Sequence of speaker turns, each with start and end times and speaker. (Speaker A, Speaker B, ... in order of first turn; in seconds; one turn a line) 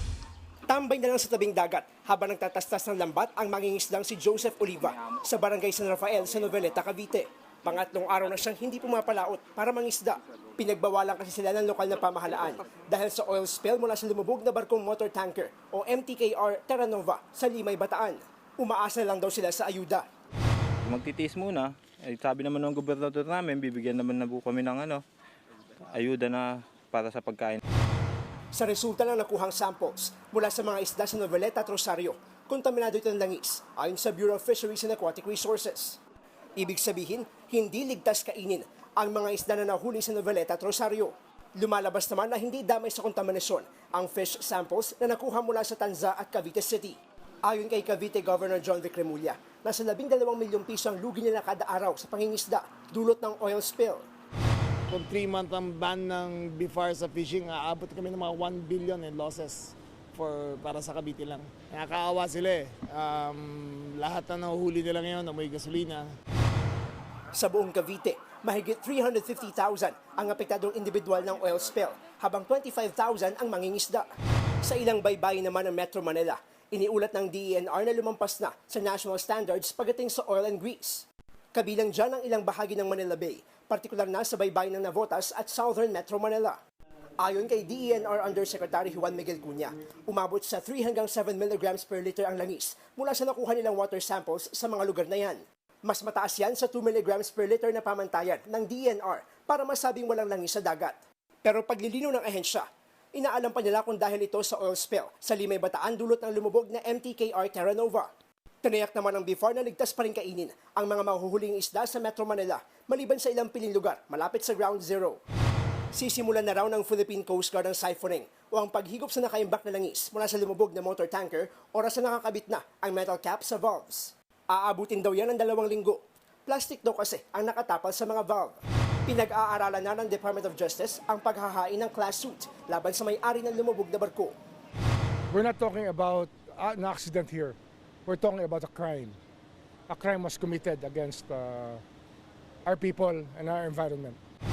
Speaker A: 0.7-20.0
Speaker B: 20.8-25.0
Speaker B: 25.9-27.6
Speaker A: 28.5-36.0
Speaker A: 36.6-54.0
Speaker C: 54.9-66.1
Speaker A: 67.3-74.1
Speaker A: 74.6-86.6
Speaker A: 87.2-108.1
Speaker A: 108.6-115.2
Speaker A: 115.9-134.3
Speaker D: 135.3-139.2
Speaker D: 139.9-141.8
Speaker D: 142.7-144.2